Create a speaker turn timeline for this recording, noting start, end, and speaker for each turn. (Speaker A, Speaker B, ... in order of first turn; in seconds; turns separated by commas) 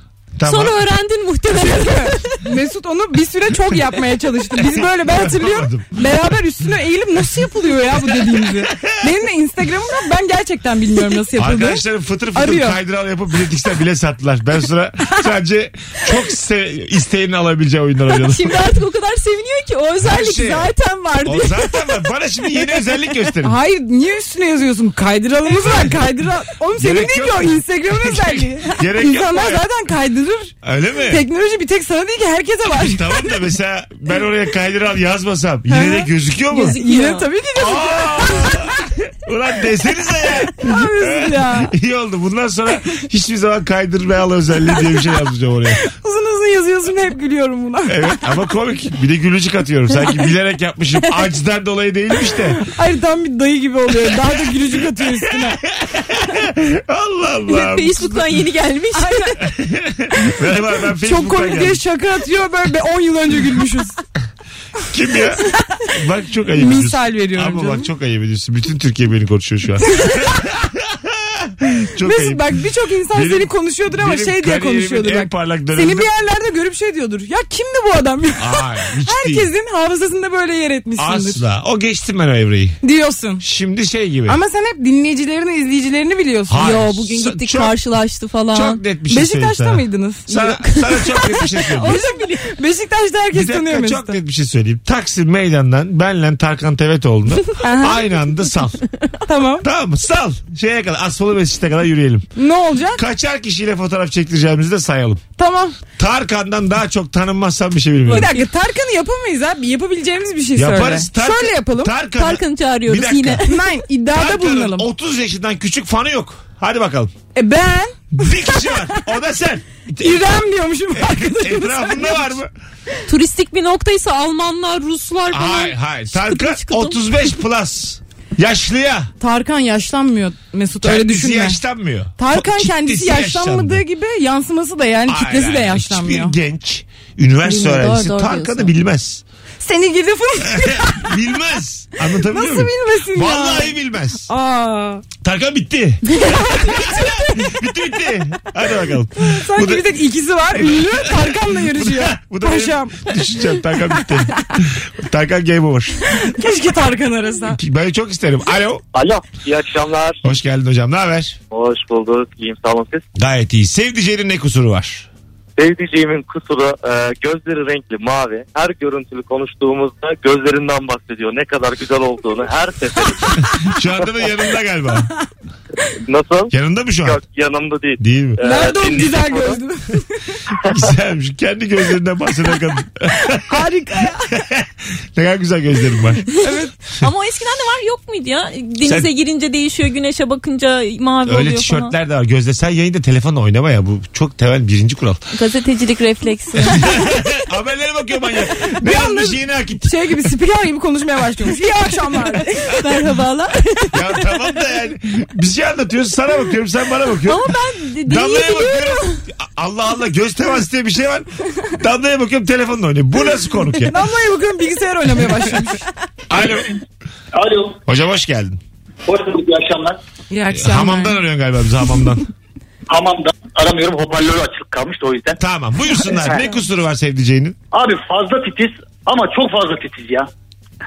Speaker A: 0.4-0.8, Speaker B: 0.4-2.4, Speaker C: 1.6-11.8, Speaker A: 4.8-6.3, Speaker A: 8.1-9.0, Speaker A: 11.4-18.6, Speaker C: 12.3-12.8, Speaker B: 18.2-21.3, Speaker A: 20.0-20.7, Speaker C: 20.8-21.6, Speaker A: 21.2-23.6, Speaker C: 23.4-30.5, Speaker A: 26.8-29.6, Speaker A: 30.6-31.2, Speaker C: 31.1-33.3, Speaker A: 32.8-36.8, Speaker C: 35.7-38.7, Speaker B: 36.5-37.3, Speaker A: 37.5-45.8, Speaker C: 40.6-41.7, Speaker C: 45.8-48.2, Speaker A: 47.9-52.6, Speaker C: 52.6-55.6, Speaker A: 55.3-58.4, Speaker B: 57.5-59.4, Speaker C: 59.0-59.4, Speaker A: 59.4-61.8, Speaker C: 61.0-64.0, Speaker A: 64.9-72.5, Speaker C: 66.5-67.9, Speaker C: 69.9-70.2, Speaker C: 72.0-81.4, Speaker A: 73.1-76.1, Speaker A: 78.4-79.5, Speaker A: 81.0-82.8, Speaker C: 82.8-83.4, Speaker A: 83.4-84.4, Speaker C: 84.3-86.7, Speaker A: 86.5-87.8, Speaker B: 86.6-88.8, Speaker A: 88.5-92.0, Speaker C: 89.1-90.6, Speaker B: 90.4-92.5, Speaker C: 91.6-94.2, Speaker A: 93.3-98.8, Speaker C: 97.6-98.0, Speaker C: 99.3-99.7, Speaker A: 99.6-102.3, Speaker C: 102.4-103.0, Speaker A: 103.0-105.2, Speaker C: 105.4-105.8, Speaker A: 106.0-108.3, Speaker C: 108.1-111.9, Speaker B: 108.1-108.4, Speaker A: 110.6-113.4, Speaker B: 112.2-113.7, Speaker C: 113.5-114.9, Speaker A: 114.1-117.1, Speaker C: 117.3-119.0, Speaker A: 118.1-120.4, Speaker C: 120.0-122.4, Speaker A: 120.9-122.5, Speaker B: 123.1-127.3, Speaker A: 125.3-129.1, Speaker C: 129.2-131.6, Speaker A: 130.8-133.8, Speaker C: 132.2-136.3, Speaker A: 135.1-139.2, Speaker B: 137.4-138.7, Speaker C: 139.6-141.2, Speaker A: 140.4-144.3, Speaker C: 142.2-145.0, Speaker A: 145.2-149.9, Speaker C: 146.5-147.3, Speaker C: 149.2-153.1, Speaker A: 150.5-156.0, Speaker C: 156.1-157.6, Speaker A: 157.5-158.8, Speaker D: 158.9-160.3, Speaker A: 160.2-161.4, Speaker D: 161.5-163.1, Speaker A: 163.2-165.1, Speaker D: 165.6-173.5, Speaker A: 173.6-175.1, Speaker D: 176.1-179.6, Speaker A: 176.5-177.2, Speaker A: 178.0-178.4, Speaker C: 178.4-180.4, Speaker A: 180.6-183.6, Speaker C: 183.3-184.4, Speaker A: 184.4-186.3, Speaker C: 186.3-186.7, Speaker B: 186.9-191.9, Speaker A: 188.8-189.1, Speaker A: 191.3-195.2, Speaker B: 195.3-197.0, Speaker A: 196.6-200.1, Speaker C: 198.8-202.8, Speaker B: 202.6-204.2, Speaker A: 203.9-214.0, Speaker B: 207.2-209.2, Speaker C: 213.8-215.9, Speaker A: 216.3-216.8, Speaker E: 217.3-217.8, Speaker A: 217.9-218.6, Speaker E: 219.1-220.0, Speaker C: 220.3-221.2, Speaker A: 220.5-222.2, Speaker E: 222.9-225.4, Speaker A: 225.4-227.6, Speaker E: 227.7-230.3